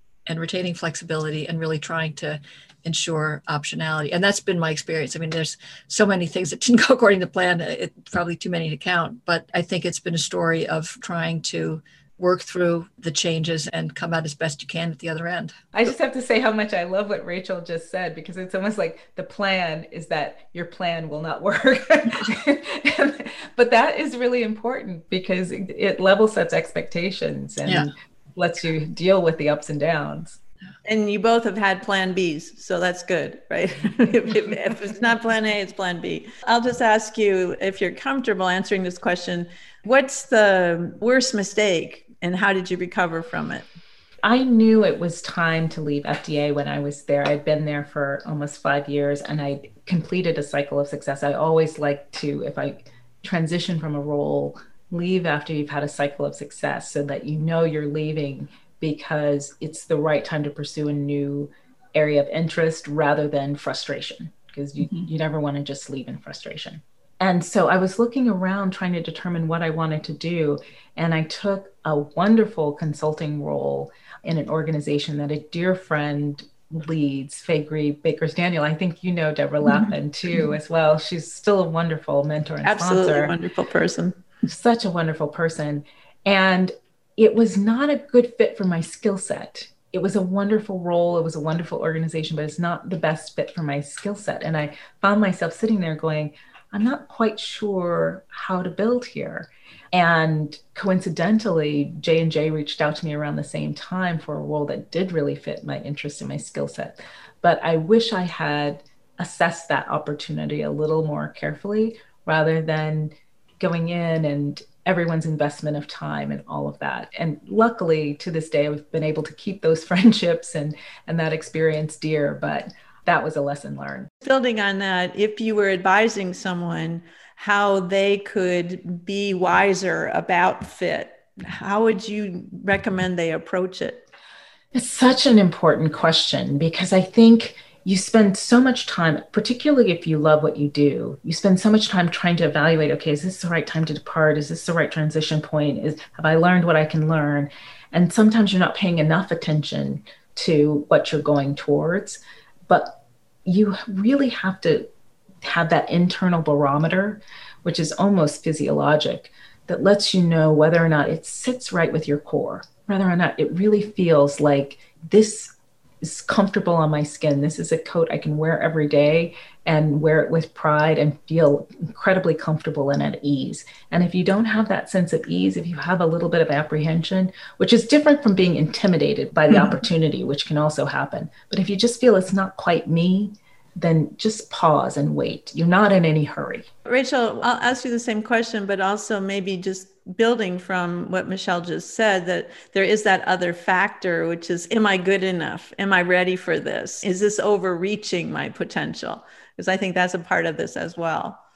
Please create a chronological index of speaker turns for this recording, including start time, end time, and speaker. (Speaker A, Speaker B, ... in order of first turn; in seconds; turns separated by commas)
Speaker A: 0.3-15.6, Speaker B: 15.7-30.4, Speaker C: 30.9-43.6, Speaker B: 44.2-83.4, Speaker C: 82.7-84.2, Speaker B: 84.5-124.1, Speaker C: 124.2-134.1, Speaker B: 134.7-154.9, Speaker B: 155.4-186.7, Speaker C: 186.9-201.4